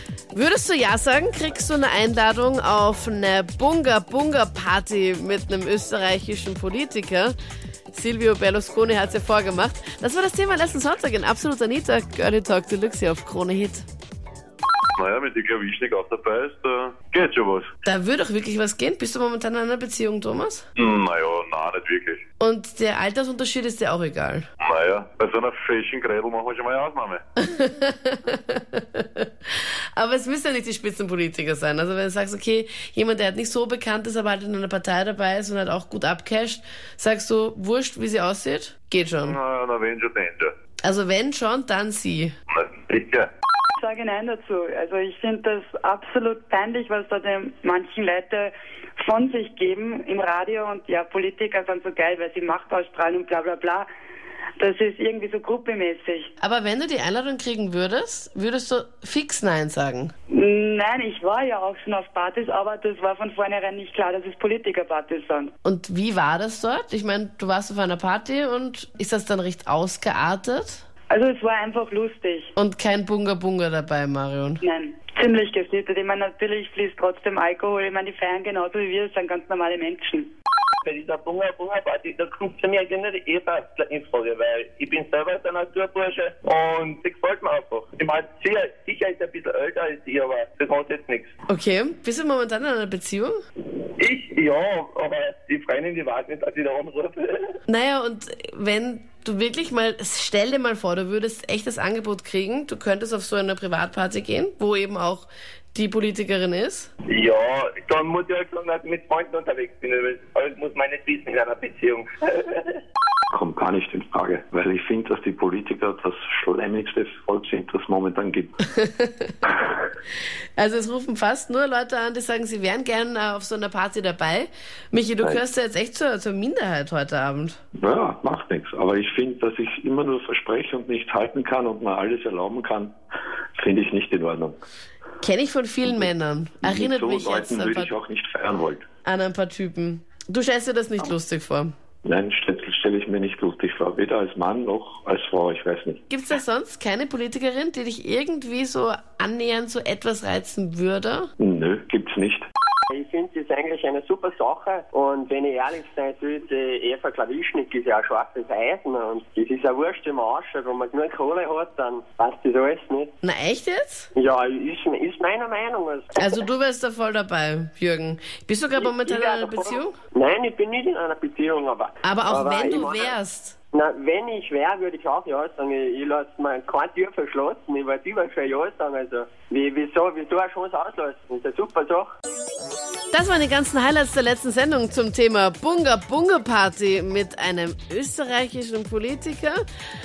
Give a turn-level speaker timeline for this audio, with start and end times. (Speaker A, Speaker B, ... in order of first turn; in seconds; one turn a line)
Speaker A: 0.3-7.3
Speaker A: 7.9-13.9
Speaker B: 15.0-17.7
Speaker A: 17.8-20.6
Speaker B: 20.8-22.2
Speaker A: 22.4-24.5
Speaker B: 24.6-27.2
Speaker A: 27.4-29.3
Speaker A: 29.9-39.4
Speaker B: 39.2-40.5
Speaker A: 40.8-42.3
Speaker B: 42.5-43.3
Speaker C: 43.8-53.9
Speaker C: 54.6-56.3
Speaker A: 56.4-60.1
Speaker C: 60.3-65.5
Speaker A: 65.6-70.8
Speaker C: 71.1-72.5
Speaker A: 72.5-74.6
Speaker C: 74.6-80.3
Speaker D: 80.8-91.3
Speaker A: 91.5-93.4
Speaker D: 93.7-97.5
Speaker A: 97.7-106.9
Speaker D: 107.1-112.8
Speaker E: 113.3-118.5
Speaker A: 118.7-119.3
Speaker A: 120.6-127.6
Speaker E: 127.8-132.9
Speaker E: 133.6-134.6
Speaker A: 135.2-137.9
Speaker E: 136.6-138.8
Speaker A: 139.0-141.7
Speaker E: 142.0-146.0
Speaker A: 146.1-151.3
Speaker E: 151.4-152.4
Speaker F: 152.9-163.1
Speaker A: 163.2-164.1
Speaker F: 164.1-166.4
Speaker A: 166.2-170.0
Speaker F: 168.8-173.2
Speaker A: 172.0-173.6
Speaker F: 173.7-182.1
Speaker A: 183.1-189.6